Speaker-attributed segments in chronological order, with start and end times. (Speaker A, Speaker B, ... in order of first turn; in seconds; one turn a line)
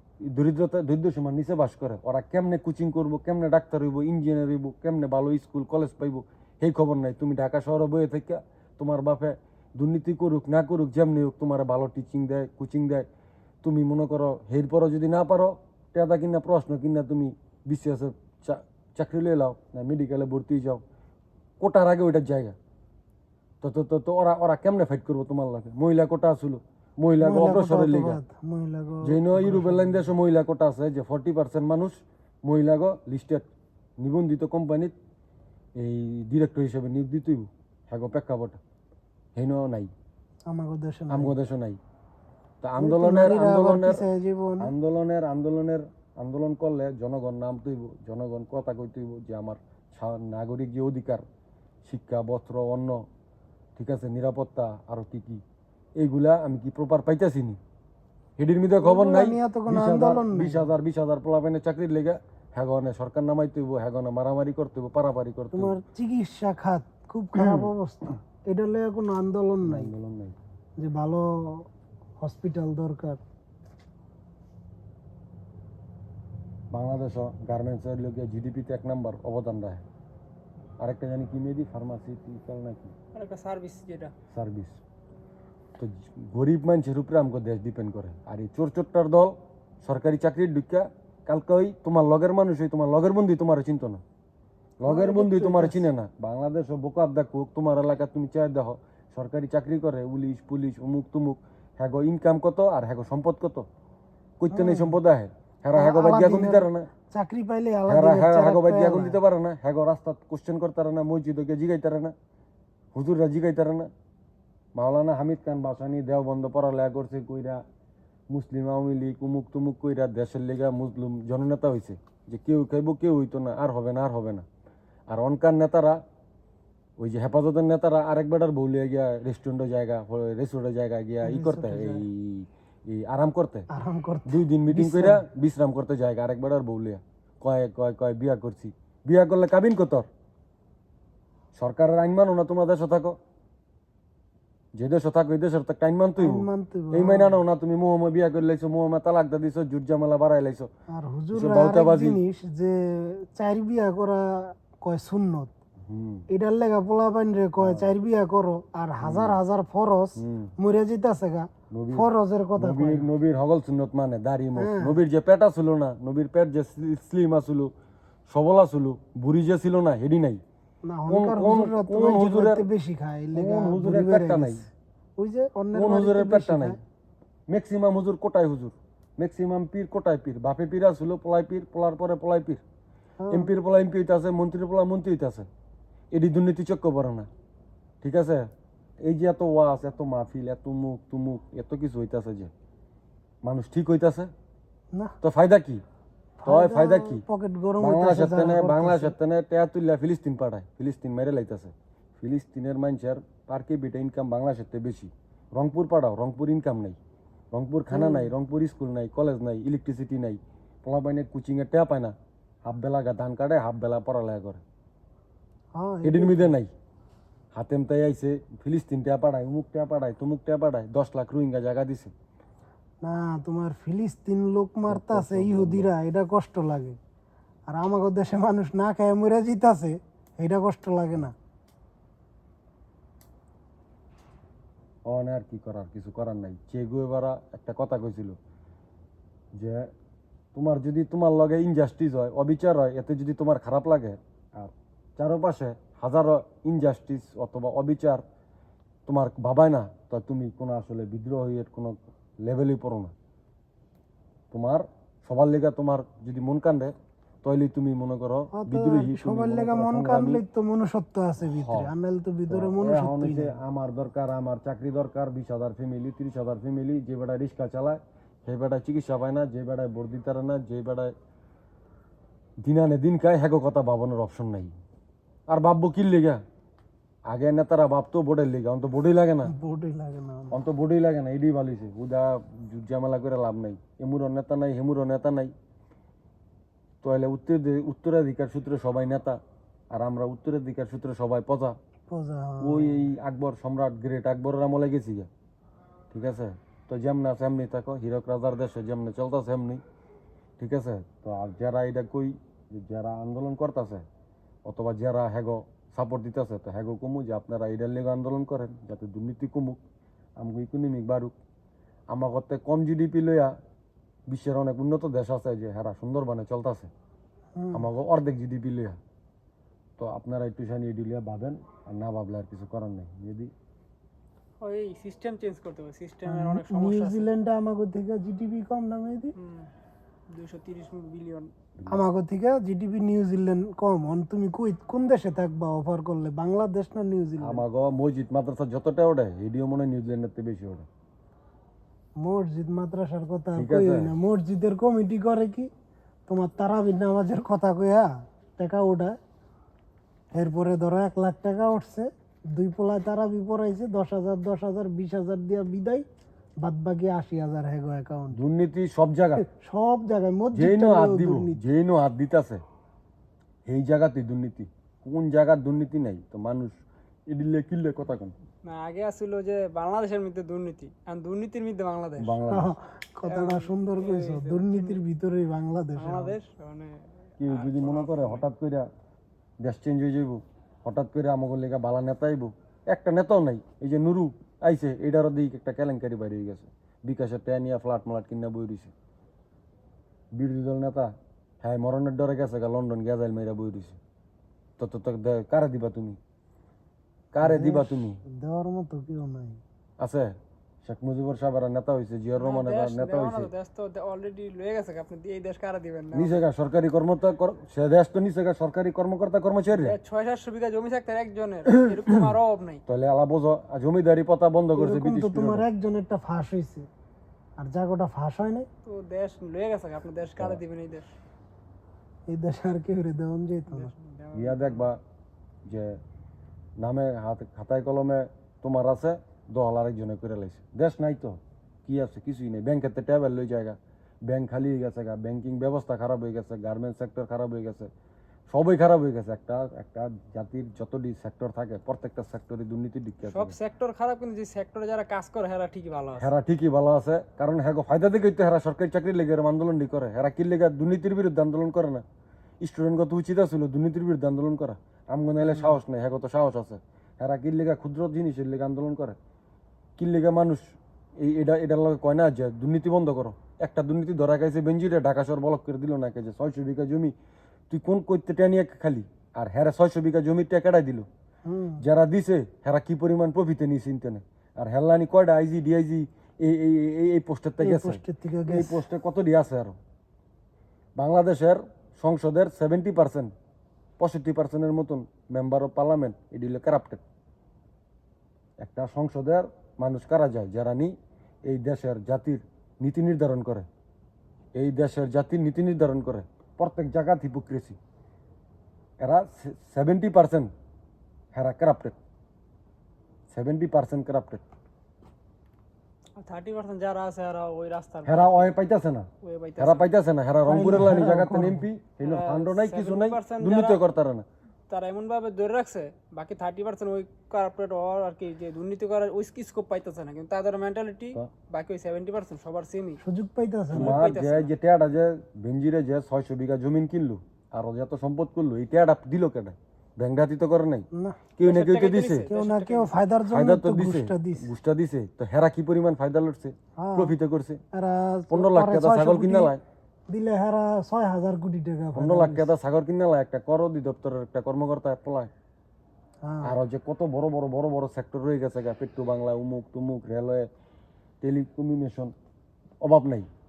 Speaker A: 0.2-13.1
Speaker A: 13.6-20.8
Speaker A: 21.6-22.6
Speaker A: 23.6-28.2
Speaker B: 27.2-30.1
Speaker A: 29.0-33.5
Speaker A: 34.0-34.9
Speaker A: 35.8-38.6
Speaker A: 39.4-39.9
Speaker B: 40.5-41.3
Speaker A: 41.1-41.8
Speaker A: 42.6-44.0
Speaker B: 42.8-44.7
Speaker A: 44.6-51.2
Speaker A: 51.9-53.0
Speaker A: 53.8-55.4
Speaker A: 56.0-57.6
Speaker A: 58.4-65.8
Speaker B: 58.8-60.7
Speaker B: 65.5-69.9
Speaker A: 67.4-67.7
Speaker A: 69.7-70.4
Speaker B: 70.8-71.7
Speaker B: 72.2-73.2
Speaker A: 76.7-79.8
Speaker A: 80.8-82.9
Speaker C: 83.1-84.1
Speaker A: 84.3-84.8
Speaker A: 85.8-94.0
Speaker A: 94.8-103.7
Speaker B: 94.8-95.9
Speaker A: 104.4-106.9
Speaker B: 104.5-105.0
Speaker B: 105.7-109.2
Speaker A: 107.9-112.1
Speaker A: 112.9-113.9
Speaker A: 114.8-117.6
Speaker A: 118.3-124.5
Speaker A: 125.1-126.0
Speaker A: 127.0-133.7
Speaker B: 131.2-132.1
Speaker B: 133.7-135.2
Speaker A: 134.3-140.1
Speaker A: 141.6-143.2
Speaker A: 144.8-150.7
Speaker B: 146.2-147.4
Speaker B: 150.9-155.5
Speaker A: 151.3-152.2
Speaker A: 155.9-156.3
Speaker B: 156.3-163.1
Speaker A: 157.6-157.9
Speaker A: 159.0-159.4
Speaker A: 160.2-160.5
Speaker A: 161.7-167.7
Speaker B: 164.6-165.0
Speaker A: 168.3-170.4
Speaker B: 170.9-176.8
Speaker A: 171.1-172.7
Speaker A: 173.3-174.7
Speaker A: 175.7-176.8
Speaker A: 177.5-182.6
Speaker B: 183.2-183.5
Speaker A: 183.3-185.5
Speaker A: 186.1-187.3
Speaker A: 188.0-188.5
Speaker A: 189.0-192.5
Speaker A: 193.4-194.3
Speaker A: 195.2-195.8
Speaker B: 196.4-199.2
Speaker A: 196.4-197.2
Speaker A: 197.8-207.0
Speaker A: 207.5-212.1
Speaker B: 207.9-208.3
Speaker A: 212.7-214.6
Speaker B: 215.8-216.5
Speaker A: 216.0-216.7
Speaker A: 217.5-222.1
Speaker B: 223.0-227.0
Speaker A: 224.9-225.9
Speaker B: 227.7-231.3
Speaker A: 235.1-238.4
Speaker A: 239.6-239.9
Speaker A: 240.6-248.2
Speaker A: 249.1-253.1
Speaker A: 254.5-260.4
Speaker B: 258.5-263.6
Speaker A: 261.4-261.9
Speaker A: 262.5-271.1
Speaker A: 272.6-274.7
Speaker A: 275.5-276.4
Speaker A: 277.3-279.5
Speaker B: 279.4-280.6
Speaker A: 280.5-285.5
Speaker A: 287.0-289.4
Speaker A: 289.9-291.8
Speaker B: 292.1-293.1
Speaker A: 292.6-295.3
Speaker A: 296.1-299.8
Speaker A: 300.6-304.1
Speaker A: 304.7-309.8
Speaker A: 310.4-311.3
Speaker A: 312.1-313.5
Speaker A: 314.3-316.9
Speaker B: 317.6-317.9
Speaker A: 317.7-319.0
Speaker A: 320.0-323.5
Speaker C: 324.6-327.3
Speaker B: 326.3-329.3
Speaker C: 329.4-329.7
Speaker C: 330.3-331.5
Speaker A: 331.8-332.1
Speaker B: 331.9-337.7
Speaker A: 337.4-340.9
Speaker B: 342.2-345.7
Speaker A: 343.6-344.2
Speaker B: 346.3-349.2
Speaker B: 350.3-356.1
Speaker B: 356.6-358.4
Speaker A: 358.3-359.4
Speaker B: 359.4-361.6
Speaker A: 360.5-362.6
Speaker A: 363.7-366.8
Speaker A: 367.3-368.3
Speaker C: 368.6-372.4
Speaker A: 372.2-372.7
Speaker B: 372.5-376.4
Speaker C: 373.2-375.0
Speaker C: 376.0-378.5
Speaker A: 377.4-378.9
Speaker A: 379.6-388.9
Speaker A: 390.3-394.0
Speaker A: 394.8-396.2
Speaker A: 397.3-398.2
Speaker B: 397.4-399.6
Speaker A: 400.0-403.5
Speaker C: 402.4-406.4
Speaker A: 406.1-410.0
Speaker C: 409.7-412.8
Speaker A: 412.9-415.7
Speaker B: 414.8-416.9
Speaker B: 417.6-418.7
Speaker C: 418.9-421.1
Speaker B: 422.3-423.9
Speaker C: 423.7-424.9
Speaker A: 424.3-425.0
Speaker A: 425.7-426.0
Speaker A: 426.8-437.9
Speaker A: 438.5-443.6
Speaker C: 443.2-446.3
Speaker A: 446.2-452.0
Speaker A: 452.6-459.2
Speaker A: 460.0-460.6
Speaker A: 461.2-467.1
Speaker A: 467.7-471.1
Speaker B: 471.5-471.8
Speaker A: 471.8-479.8
Speaker B: 477.6-478.8
Speaker A: 481.0-483.3
Speaker A: 484.0-487.0
Speaker A: 488.6-490.9
Speaker A: 491.5-493.7
Speaker A: 494.6-497.8
Speaker A: 499.0-500.5
Speaker A: 501.3-501.9
Speaker A: 503.3-504.4
Speaker C: 506.2-508.6
Speaker A: 508.1-514.3
Speaker C: 509.2-509.9
Speaker B: 510.5-511.7
Speaker C: 512.0-513.8
Speaker C: 514.7-523.0
Speaker B: 523.0-524.0
Speaker C: 523.7-524.5
Speaker A: 523.7-532.3
Speaker B: 530.9-531.2
Speaker C: 531.4-533.1
Speaker B: 532.3-534.5
Speaker A: 533.3-537.6
Speaker B: 536.8-537.1
Speaker B: 537.7-539.5
Speaker A: 538.3-539.6
Speaker B: 540.1-542.5
Speaker A: 542.0-545.3
Speaker B: 546.2-546.5
Speaker A: 546.4-550.5
Speaker A: 551.2-552.1
Speaker A: 552.8-553.3